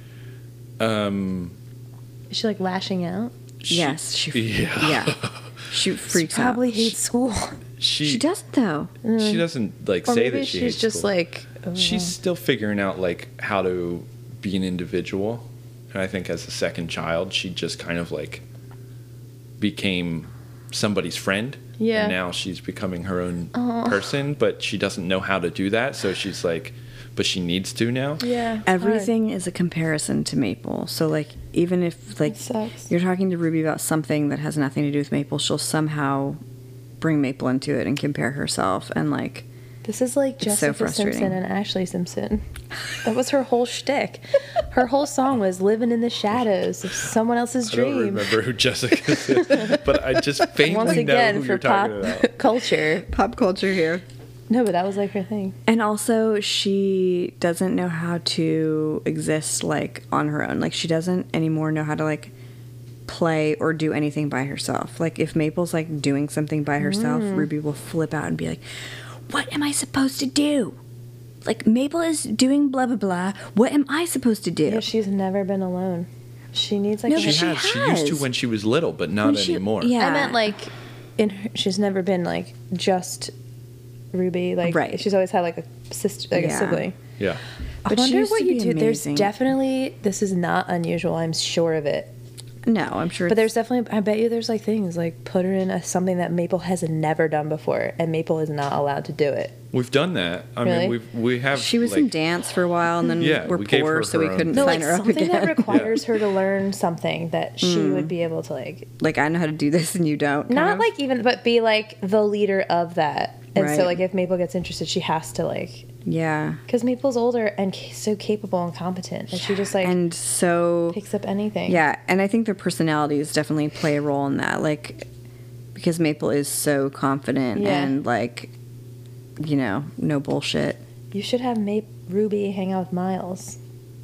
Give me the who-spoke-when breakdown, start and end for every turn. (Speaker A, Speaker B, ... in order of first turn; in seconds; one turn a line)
Speaker A: 0.8-1.6
Speaker B: 2.3-3.3
Speaker A: 3.6-5.6
Speaker C: 3.7-5.2
Speaker C: 5.7-6.9
Speaker B: 6.1-7.6
Speaker A: 7.8-8.2
Speaker C: 8.0-8.9
Speaker B: 9.0-9.4
Speaker A: 9.2-11.1
Speaker B: 10.1-12.2
Speaker A: 11.8-18.4
Speaker A: 19.6-28.2
Speaker B: 21.8-22.2
Speaker B: 23.5-24.0
Speaker B: 28.2-29.1
Speaker C: 28.7-36.4
Speaker B: 32.3-32.9
Speaker C: 37.0-39.5
Speaker B: 39.9-42.4
Speaker C: 40.4-41.4
Speaker B: 43.0-48.4
Speaker A: 47.7-52.3
Speaker B: 49.1-49.8
Speaker B: 50.6-53.1
Speaker C: 53.1-54.0
Speaker B: 54.5-55.5
Speaker C: 55.7-62.3
Speaker C: 63.1-68.6
Speaker B: 66.8-67.5
Speaker C: 69.3-70.8
Speaker C: 71.5-74.9
Speaker B: 74.7-77.5
Speaker C: 77.1-78.3
Speaker A: 77.1-80.0
Speaker C: 79.2-80.5
Speaker B: 80.0-83.3
Speaker B: 84.1-87.0
Speaker C: 84.6-85.0
Speaker C: 86.3-86.8
Speaker C: 87.8-89.3
Speaker B: 87.9-92.1
Speaker C: 92.7-93.5
Speaker B: 93.3-99.6
Speaker A: 99.7-102.1
Speaker B: 100.6-101.0
Speaker C: 101.5-105.9
Speaker A: 103.2-105.0
Speaker B: 104.5-108.9
Speaker A: 105.7-106.0
Speaker C: 107.6-108.1
Speaker C: 109.0-110.9
Speaker B: 110.5-115.9
Speaker C: 113.6-114.0
Speaker C: 116.0-116.6
Speaker B: 116.7-120.0
Speaker C: 119.6-121.0
Speaker B: 120.9-121.8
Speaker C: 121.7-125.1
Speaker C: 125.8-128.5
Speaker B: 127.5-128.0
Speaker C: 129.4-130.8
Speaker B: 131.1-133.6